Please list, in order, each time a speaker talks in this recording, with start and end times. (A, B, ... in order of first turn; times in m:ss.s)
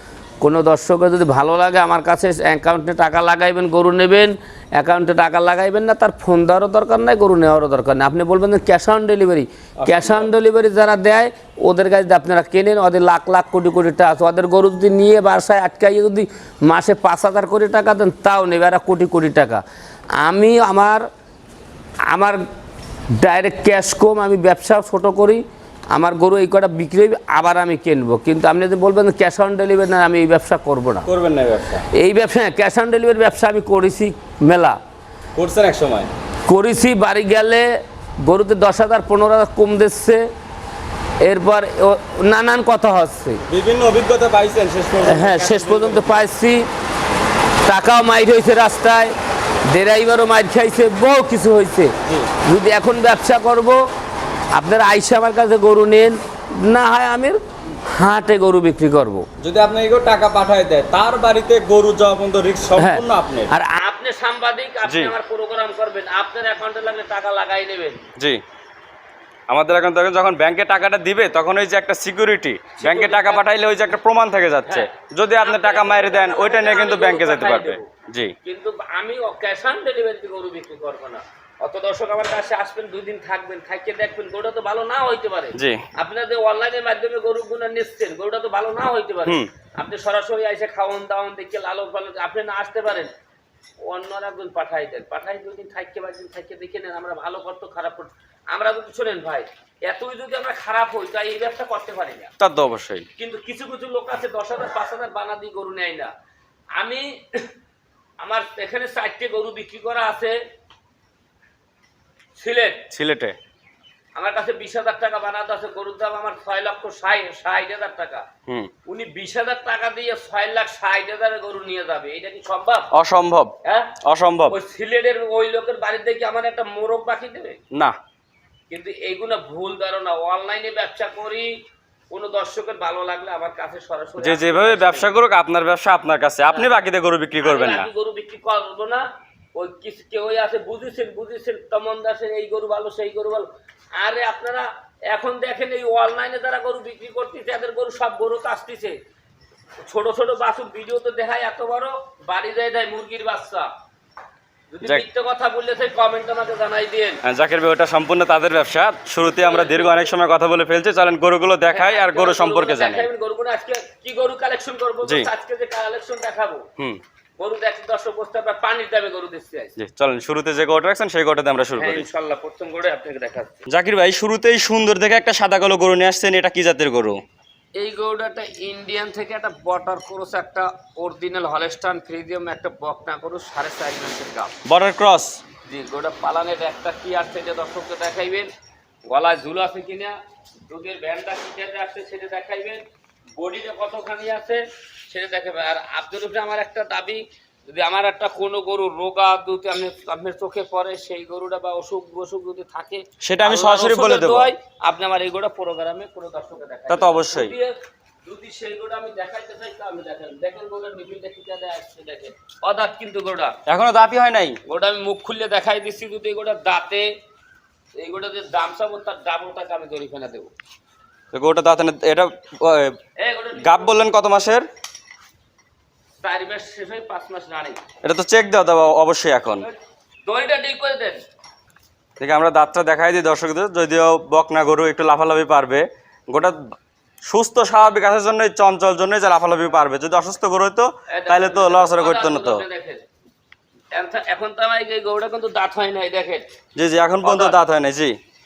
0:00.4-0:19.6 A
0:09.8-0:10.3 B
0:20.2-0:21.0 A
0:22.1-0:22.4 A
0:23.2-0:25.4 A
0:25.9-0:31.1 A
0:31.0-0:31.8 B
0:31.9-0:34.8 A
0:35.4-0:36.1 B
0:36.5-0:37.7 A
0:38.2-0:40.3 A
0:41.2-0:43.4 A
0:43.5-0:46.2 B
0:45.0-0:46.6 A
0:47.6-0:49.1 A
0:49.7-0:53.8 A
0:52.0-0:52.3 B
0:54.5-0:59.2 A
0:59.4-1:03.5 B
1:02.8-1:03.7 A
1:03.8-1:08.0 C
1:04.8-1:05.1 B
1:09.5-1:18.4 B
1:12.8-1:13.4 C
1:15.4-1:17.8 C
1:18.4-1:33.1 C
1:25.5-1:25.8 B
1:33.8-1:42.3 C
1:42.4-1:43.1 B
1:43.2-1:46.1 C
1:46.8-1:47.5 C
1:48.2-1:50.3 C
1:52.4-1:52.8 C
1:52.9-1:53.4 B
1:54.2-1:58.2 C
1:58.9-2:02.9 C
2:02.9-2:04.6 B
2:03.6-2:03.9 C
2:04.5-2:07.6 C
2:07.7-2:08.0 B
2:08.7-2:11.5 C
2:12.1-2:15.2 C
2:14.2-2:17.9 B
2:17.4-2:23.4 C
2:24.0-2:28.9 C
2:29.8-2:33.7 C
2:34.7-2:37.2 C
2:37.2-2:43.1 B
2:39.3-2:40.1 C
2:41.7-2:46.6 C
2:45.0-2:45.3 B
2:47.4-2:49.7 C
2:49.8-2:52.1 B
2:51.8-2:53.6 C
2:53.7-2:57.2 B
2:57.8-3:04.5 C
3:04.6-3:05.4 B
3:05.6-3:08.5 C
3:09.1-3:10.2 C
3:10.7-3:12.8 C
3:13.4-3:27.7 C
3:23.2-3:24.5 B
3:26.9-3:27.6 B
3:28.2-3:33.6 C
3:33.7-3:34.6 B
3:34.7-3:37.1 C
3:38.0-3:40.5 C
3:41.3-3:43.0 B
3:43.2-3:44.0 C
3:43.6-3:44.6 B
3:46.2-3:47.8 C
3:48.0-3:49.7 B
3:49.6-3:51.2 C
3:52.2-4:02.6 B
4:01.1-4:03.0 C
4:03.9-4:06.4 C
4:06.8-4:08.2 B
4:07.2-4:07.5 C